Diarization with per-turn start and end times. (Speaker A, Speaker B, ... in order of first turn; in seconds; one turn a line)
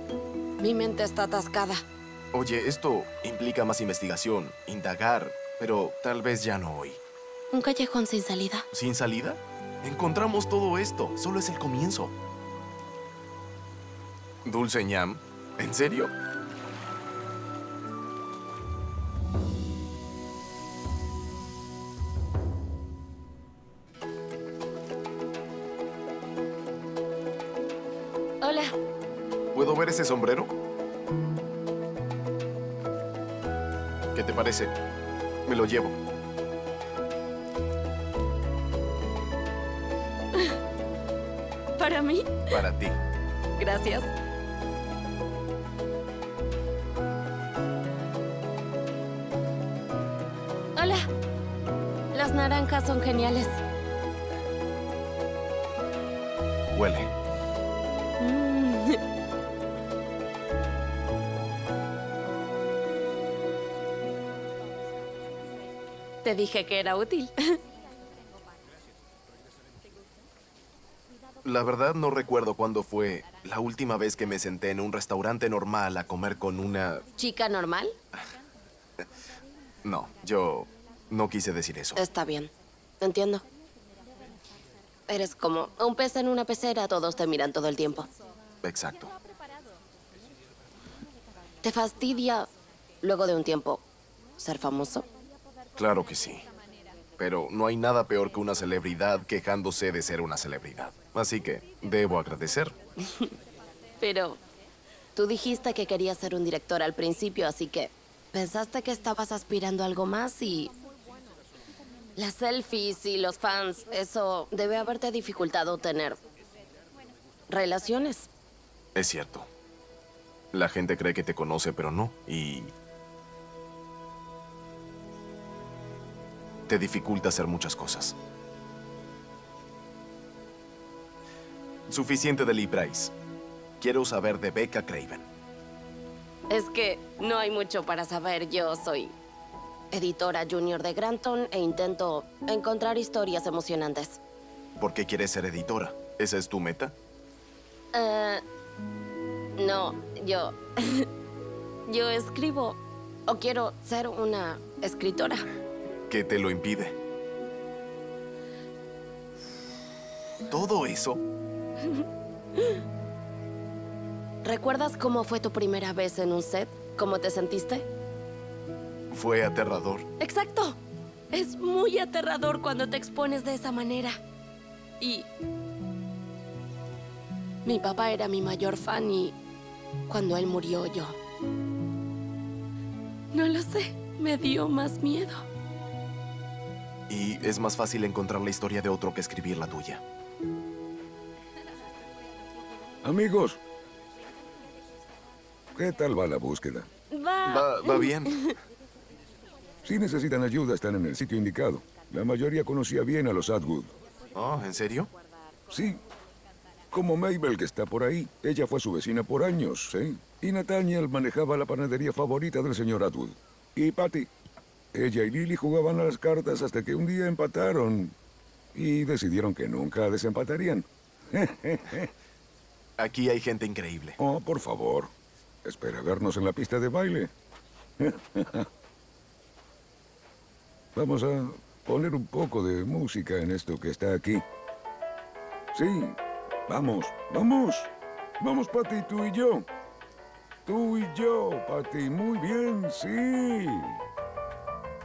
Speaker A: 0.6-1.8
Speaker B: 2.3-7.0
Speaker A: 7.5-8.7
Speaker B: 8.7-12.1
Speaker B: 14.4-16.1
Speaker A: 28.4-28.7
Speaker B: 29.5-30.5
Speaker B: 34.1-34.7
Speaker B: 35.5-36.0
Speaker A: 41.8-42.6
Speaker B: 42.5-42.9
Speaker A: 43.6-44.1
Speaker A: 50.8-51.1
Speaker A: 52.1-53.6
Speaker B: 56.8-57.1
Speaker A: 58.2-59.0
Speaker A: 66.2-67.3
Speaker B: 71.4-77.0
Speaker A: 77.2-78.0
Speaker B: 79.8-82.0
Speaker A: 82.0-83.4
Speaker A: 85.1-88.1
Speaker B: 88.6-89.1
Speaker A: 91.6-92.5
Speaker A: 93.0-93.8
Speaker A: 94.4-95.1
Speaker B: 95.8-96.5
Speaker B: 97.2-102.7
Speaker A: 104.0-104.4
Speaker A: 105.2-110.7
Speaker A: 112.2-116.2
Speaker A: 117.5-118.3
Speaker B: 119.0-119.5
Speaker B: 120.5-122.7
Speaker B: 126.7-128.2
Speaker B: 131.9-133.1
Speaker B: 133.8-135.3
Speaker A: 136.5-139.1
Speaker A: 139.9-144.2
Speaker B: 144.8-146.9
Speaker A: 147.9-148.4
Speaker A: 149.6-151.1
Speaker A: 151.9-155.5
Speaker B: 156.1-156.9
Speaker B: 160.5-161.2
Speaker A: 164.4-167.9
Speaker B: 169.1-170.1
Speaker A: 170.2-170.8
Speaker A: 171.3-174.2
Speaker A: 175.0-175.3
Speaker A: 177.7-179.4
Speaker A: 180.1-181.2
Speaker A: 183.3-185.4
Speaker B: 187.1-190.0
Speaker C: 193.0-193.6
Speaker C: 195.8-196.9
Speaker A: 197.1-198.4
Speaker B: 197.5-198.4
Speaker C: 199.8-203.9
Speaker B: 204.3-205.1
Speaker C: 205.7-206.0
Speaker C: 206.9-214.3
Speaker C: 214.9-218.2
Speaker C: 218.8-222.1
Speaker B: 223.0-224.2
Speaker C: 224.2-225.1
Speaker C: 225.6-227.3
Speaker C: 228.0-228.7
Speaker C: 230.9-234.4
Speaker C: 235.7-236.2
Speaker C: 236.7-239.7
Speaker C: 240.7-243.9